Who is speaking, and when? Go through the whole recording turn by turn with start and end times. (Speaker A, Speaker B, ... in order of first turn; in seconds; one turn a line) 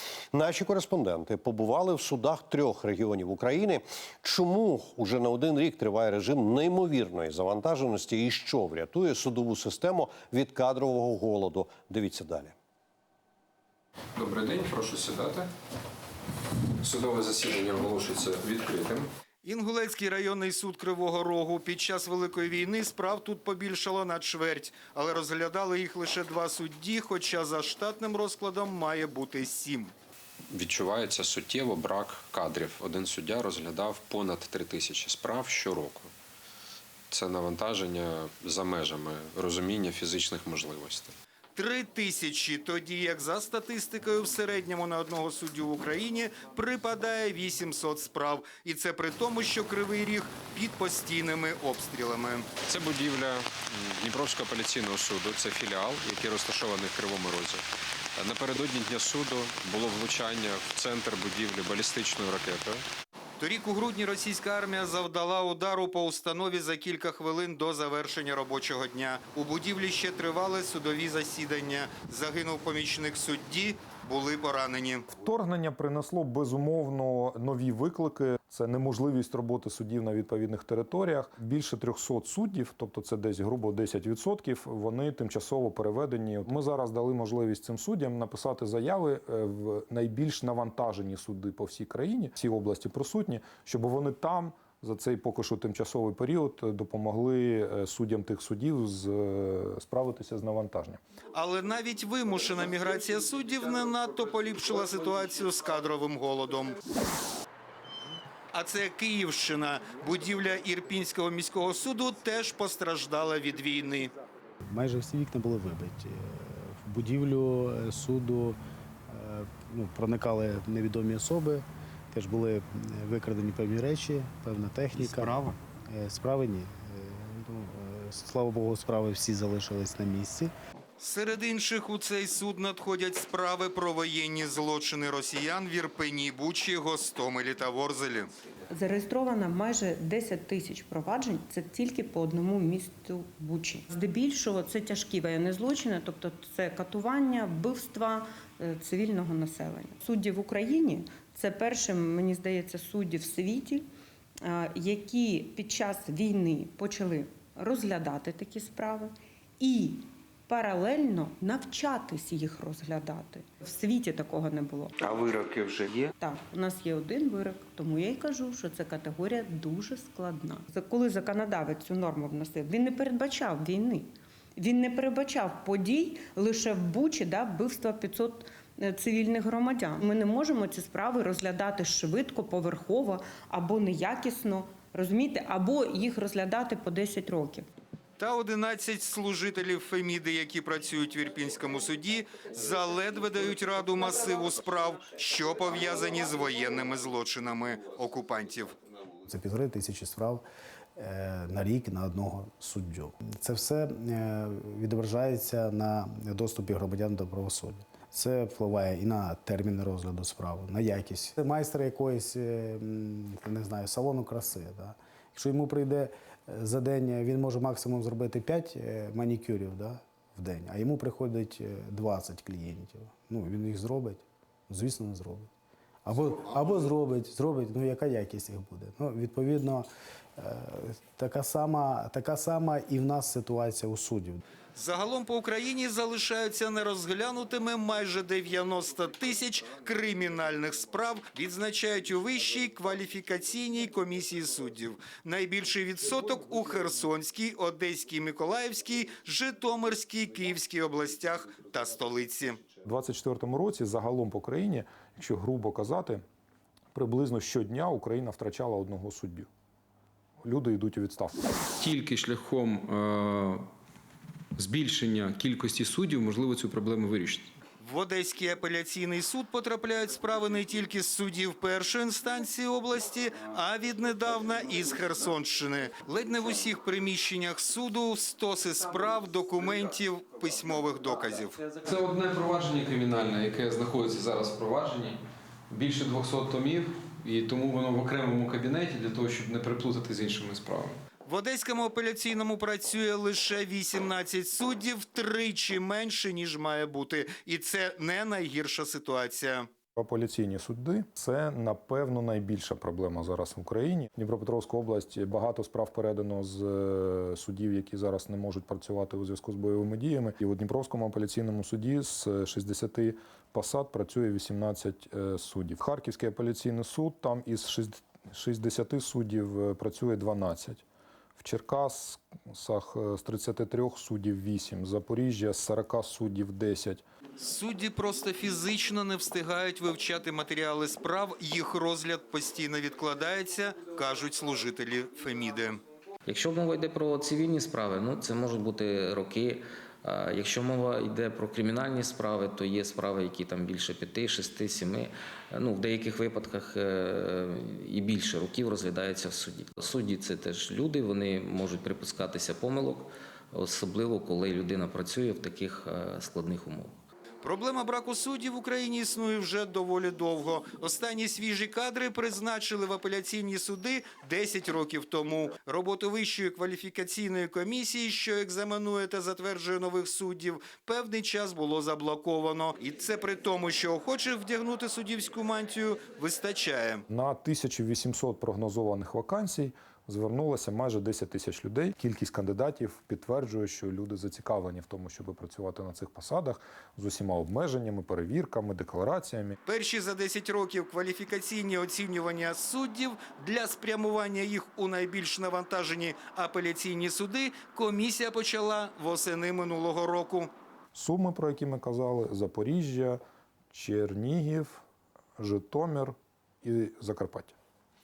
Speaker A: 0.3-12.5
Speaker B: 14.2-15.5
Speaker B: 16.8-19.1
Speaker C: 19.4-29.9
Speaker B: 30.5-36.1
Speaker B: 37.1-41.1
Speaker C: 41.5-52.5
Speaker B: 52.7-57.6
Speaker B: 58.2-62.8
Speaker C: 63.4-75.0
Speaker D: 75.1-101.0
Speaker C: 101.3-106.8
Speaker C: 108.5-114.1
Speaker E: 114.6-118.6
Speaker E: 119.1-130.5
Speaker C: 125.0-125.6
Speaker C: 131.0-138.3
Speaker F: 138.7-153.8
Speaker F: 154.4-164.9
Speaker C: 165.0-165.8
Speaker F: 166.2-187.7
Speaker C: 188.2-198.8
Speaker E: 199.2-200.4
Speaker E: 201.0-225.5
Speaker E: 226.1-229.9
Speaker E: 230.4-234.4
Speaker C: 234.8-252.6
Speaker D: 252.8-256.2
Speaker D: 256.9-259.5
Speaker D: 260.4-261.4
Speaker G: 261.8-263.6
Speaker G: 264.6-267.5
Speaker C: 267.8-281.6
Speaker G: 281.9-285.2
Speaker G: 285.7-291.0
Speaker C: 291.2-299.7
Speaker D: 300.0-320.8
Speaker D: 321.4-327.0
Speaker C: 327.4-335.8
Speaker H: 336.2-356.9
Speaker C: 357.4-377.0
Speaker D: 377.1-389.6
Speaker C: 389.7-400.5
Speaker D: 400.9-403.2
Speaker D: 403.7-404.8
Speaker D: 405.4-407.6